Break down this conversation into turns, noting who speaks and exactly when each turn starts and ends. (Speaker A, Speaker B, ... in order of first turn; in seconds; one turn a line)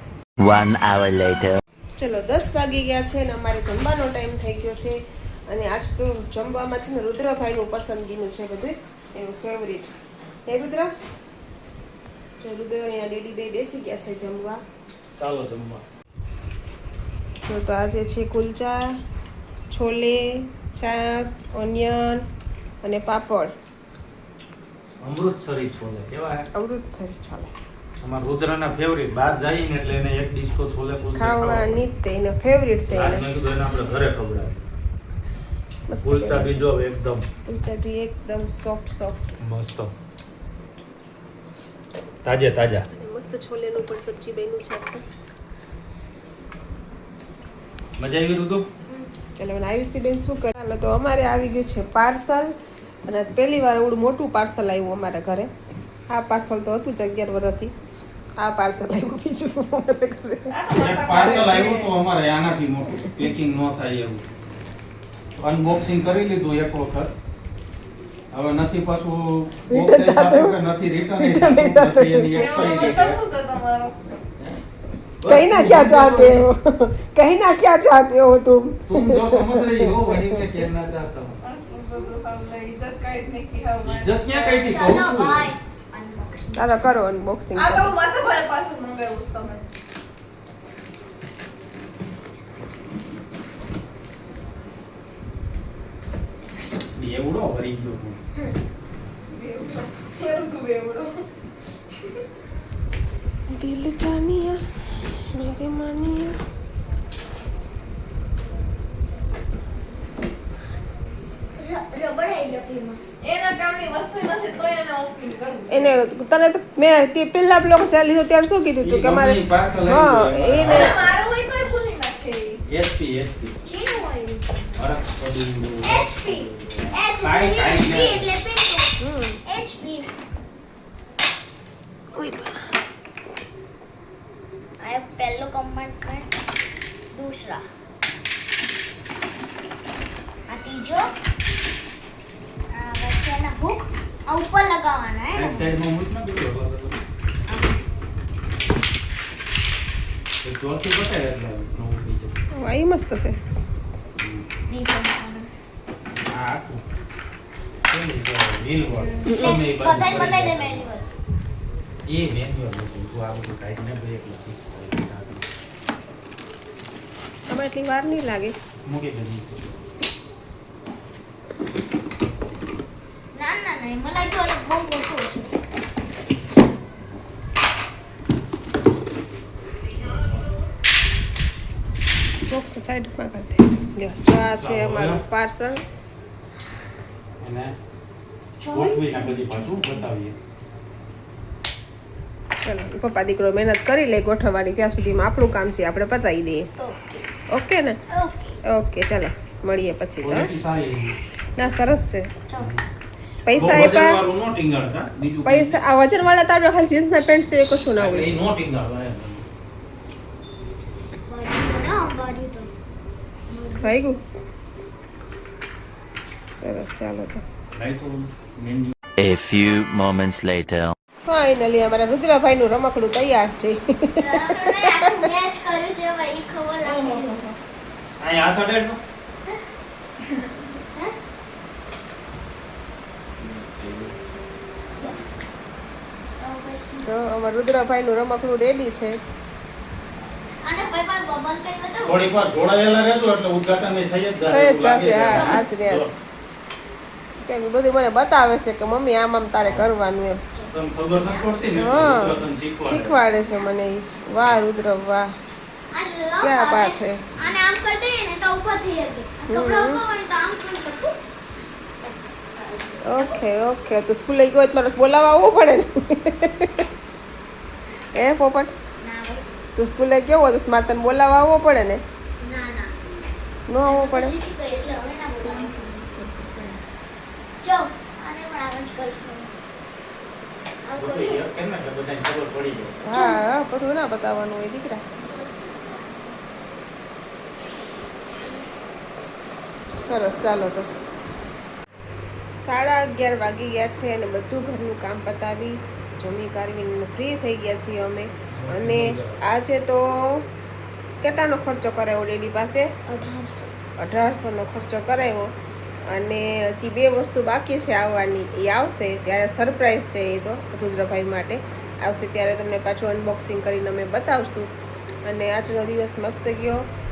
Speaker A: 0.4-1.6
Speaker B: 2.0-5.0
Speaker B: 5.5-9.9
Speaker B: 10.4-10.9
Speaker B: 12.4-14.6
Speaker C: 15.2-15.8
Speaker B: 17.4-18.9
Speaker B: 19.7-22.2
Speaker B: 22.8-23.5
Speaker C: 25.0-26.4
Speaker B: 26.5-27.5
Speaker C: 28.0-31.8
Speaker B: 31.1-33.3
Speaker C: 32.9-34.6
Speaker B: 35.9-36.7
Speaker C: 36.0-37.2
Speaker B: 37.5-39.3
Speaker C: 39.4-39.9
Speaker C: 42.2-42.9
Speaker B: 42.9-45.0
Speaker C: 48.0-48.6
Speaker B: 49.4-52.5
Speaker B: 53.1-55.5
Speaker B: 56.1-57.7
Speaker B: 58.4-60.5
Speaker D: 60.5-61.9
Speaker C: 60.7-64.2
Speaker B: 61.1-61.5
Speaker C: 65.4-67.1
Speaker C: 68.3-73.2
Speaker B: 69.7-72.9
Speaker D: 72.3-73.9
Speaker C: 75.2-76.5
Speaker B: 75.2-80.6
Speaker C: 78.8-81.4
Speaker D: 81.4-84.8
Speaker C: 83.8-85.5
Speaker E: 84.7-86.9
Speaker B: 86.5-87.9
Speaker D: 87.5-89.6
Speaker C: 97.0-98.2
Speaker D: 99.3-101.2
Speaker B: 103.5-106.4
Speaker E: 111.6-113.0
Speaker D: 113.2-115.9
Speaker B: 115.7-121.0
Speaker C: 118.8-121.2
Speaker D: 120.7-122.6
Speaker E: 120.7-121.2
Speaker C: 122.7-123.5
Speaker E: 123.6-124.8
Speaker C: 124.8-128.3
Speaker E: 125.8-130.1
Speaker B: 129.0-129.4
Speaker B: 132.1-132.8
Speaker E: 134.8-136.4
Speaker E: 137.1-137.6
Speaker E: 140.5-141.1
Speaker E: 142.7-145.7
Speaker C: 145.3-147.0
Speaker E: 147.5-147.8
Speaker C: 150.4-152.3
Speaker B: 152.5-153.4
Speaker C: 154.2-154.4
Speaker E: 154.7-155.5
Speaker C: 156.3-156.8
Speaker C: 157.9-160.9
Speaker E: 159.0-161.0
Speaker B: 159.2-159.6
Speaker C: 162.1-165.4
Speaker B: 167.5-168.5
Speaker C: 168.8-169.7
Speaker E: 173.3-175.5
Speaker B: 182.5-185.8
Speaker C: 184.6-185.2
Speaker C: 187.4-187.7
Speaker E: 188.6-190.1
Speaker C: 188.7-190.3
Speaker B: 192.6-196.7
Speaker E: 196.8-197.2
Speaker B: 197.5-198.0
Speaker E: 198.1-198.6
Speaker B: 198.7-200.5
Speaker C: 200.2-201.2
Speaker B: 201.6-202.3
Speaker C: 202.6-202.8
Speaker B: 203.4-204.2
Speaker C: 203.5-205.8
Speaker B: 205.4-208.4
Speaker C: 208.0-209.4
Speaker E: 211.3-212.7
Speaker E: 213.5-214.0
Speaker B: 213.8-214.2
Speaker B: 216.5-217.4
Speaker C: 217.7-218.9
Speaker A: 219.2-220.9
Speaker B: 221.3-225.2
Speaker E: 224.2-227.4
Speaker D: 226.8-227.6
Speaker C: 228.2-229.0
Speaker C: 233.4-234.2
Speaker E: 236.4-237.1
Speaker B: 237.0-239.2
Speaker E: 240.6-242.2
Speaker C: 242.0-246.1
Speaker B: 244.5-246.1
Speaker E: 245.2-245.6
Speaker B: 247.4-250.4
Speaker C: 249.6-249.9
Speaker E: 250.5-251.5
Speaker C: 250.7-253.2
Speaker B: 251.7-255.3
Speaker E: 255.9-261.2
Speaker B: 256.4-257.3
Speaker B: 259.5-260.0
Speaker E: 262.0-263.4
Speaker B: 263.0-266.9
Speaker B: 268.1-268.7
Speaker E: 269.0-269.4
Speaker B: 269.8-272.0
Speaker E: 272.4-272.9
Speaker B: 273.7-274.4
Speaker E: 273.8-276.1
Speaker B: 275.4-276.7
Speaker E: 277.6-279.5
Speaker E: 280.8-281.4
Speaker C: 280.9-283.1
Speaker B: 283.0-285.0
Speaker E: 283.1-283.4
Speaker E: 285.2-286.4
Speaker E: 288.4-288.7
Speaker B: 290.0-290.9
Speaker B: 292.6-300.4
Speaker C: 298.5-299.4
Speaker B: 301.2-302.9
Speaker E: 303.1-303.7
Speaker B: 304.0-305.5
Speaker B: 306.1-314.7
Speaker B: 315.2-316.8